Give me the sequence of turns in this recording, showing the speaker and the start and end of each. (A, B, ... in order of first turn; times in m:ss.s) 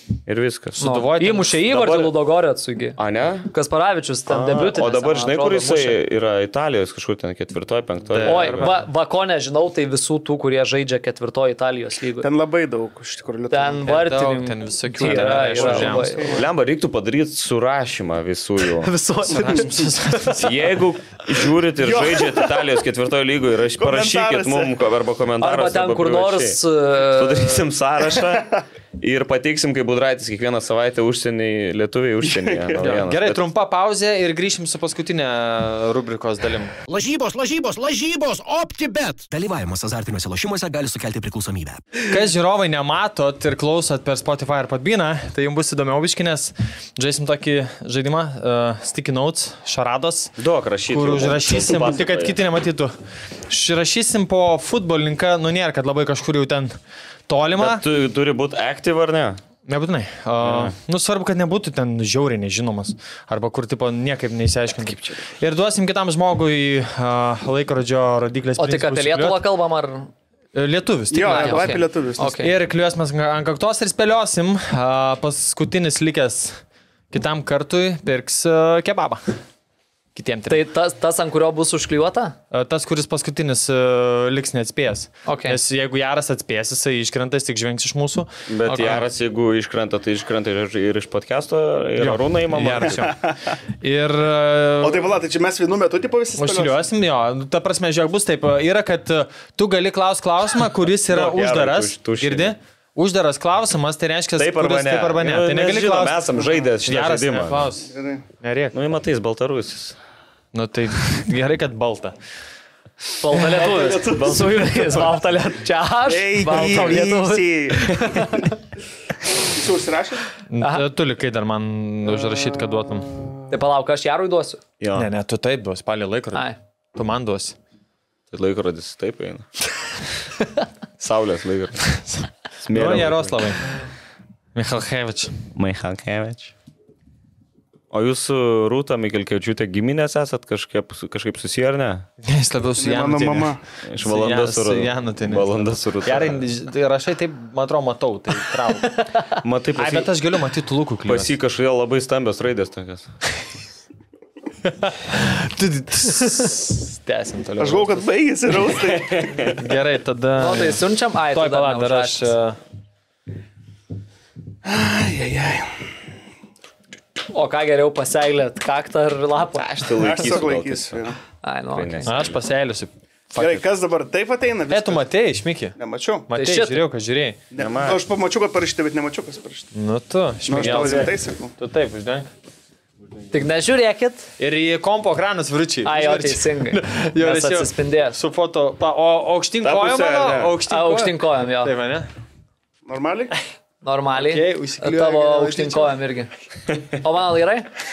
0:00.2-0:00.8 A
0:00.8-0:01.6 B
0:00.8-0:06.0 C
0:01.6-0:02.1 A
0:03.0-0:03.5 A
0:04.3-0:08.7 A
0:08.1-0:08.8 B
0:08.2-0:12.3 C
0:12.2-0:13.9 D
0:13.5-0:16.4 C
0:13.8-0:16.3 B
0:15.4-0:16.5 D
0:16.2-0:18.9 A
0:18.7-0:20.3 C
0:19.3-0:20.7 B
0:20.4-0:33.4 A
0:21.8-0:22.4 D
0:23.8-0:24.8 D
0:25.4-0:27.7 C
0:32.2-0:32.8 D
0:32.8-0:36.7 B
0:36.9-0:39.3 E
0:39.3-0:41.8 F
0:42.0-0:50.3 B
0:50.4-0:52.4 A
0:50.9-0:52.9 B
0:53.5-0:56.7 B
0:57.3-0:57.8 B
0:57.6-0:59.4 A
0:59.6-1:09.4 B
1:00.4-1:00.7 A
1:04.8-1:05.2 A
1:08.6-1:10.1 C
1:10.5-1:19.4 B
1:11.1-1:12.4 D
1:11.2-1:12.5 C
1:20.1-1:20.6 B
1:20.5-1:22.4 C
1:22.5-1:29.0 B
1:25.2-1:25.6 C
1:28.5-1:33.1 A
1:28.6-1:29.0 C
1:32.0-1:33.2 B
1:32.8-1:33.5 D
1:33.8-1:35.0 B
1:34.8-1:36.8 D
1:36.4-1:46.2 B
1:41.1-1:42.5 A
1:44.4-1:47.7 A
1:46.8-1:48.8 B
1:47.9-1:48.2 D
1:48.7-1:50.0 A
1:50.5-1:52.1 B
1:53.2-1:58.6 C
1:53.4-1:54.4 D
1:53.7-1:55.2 A
1:56.0-1:58.3 D
1:59.4-2:00.3 D
2:00.5-2:03.1 B
2:02.0-2:03.6 D
2:03.5-2:04.6 C
2:04.8-2:05.1 A
2:04.9-2:07.6 B
2:08.3-2:09.5 A
2:11.0-2:12.0 A
2:12.0-2:13.7 B
2:12.6-2:13.5 A
2:14.5-2:15.5 B
2:15.5-2:16.5 A
2:17.9-2:22.1 A
2:22.2-2:29.0 B
2:22.8-2:23.6 D
2:23.8-2:26.4 A
2:29.4-2:30.1 A
2:29.8-2:31.3 B
2:31.0-2:33.1 A
2:34.6-2:38.0 B
2:37.6-2:39.5 D
2:38.8-2:39.6 A
2:39.6-2:42.6 B
2:40.4-2:42.3 C
2:44.6-2:45.8 D
2:47.3-2:50.4 C
2:49.5-2:51.1 A
2:50.0-2:51.2 D
2:51.4-2:52.2 C
2:51.7-2:52.4 A
2:52.0-2:53.6 B
2:53.4-2:55.1 D
2:54.7-2:55.8 B
2:55.8-2:56.3 D
2:56.3-2:57.4 B
2:56.3-2:56.8 C
2:57.5-2:59.7 D
2:57.6-2:58.0 A
2:59.7-3:02.3 B
3:00.4-3:01.5 D
3:03.3-3:04.3 C
3:04.4-3:12.1 B
3:05.8-3:08.2 C
3:09.6-3:10.6 A
3:10.7-3:11.7 C
3:12.8-3:13.3 D
3:13.8-3:16.3 C
3:14.2-3:15.9 B
3:17.0-3:17.7 C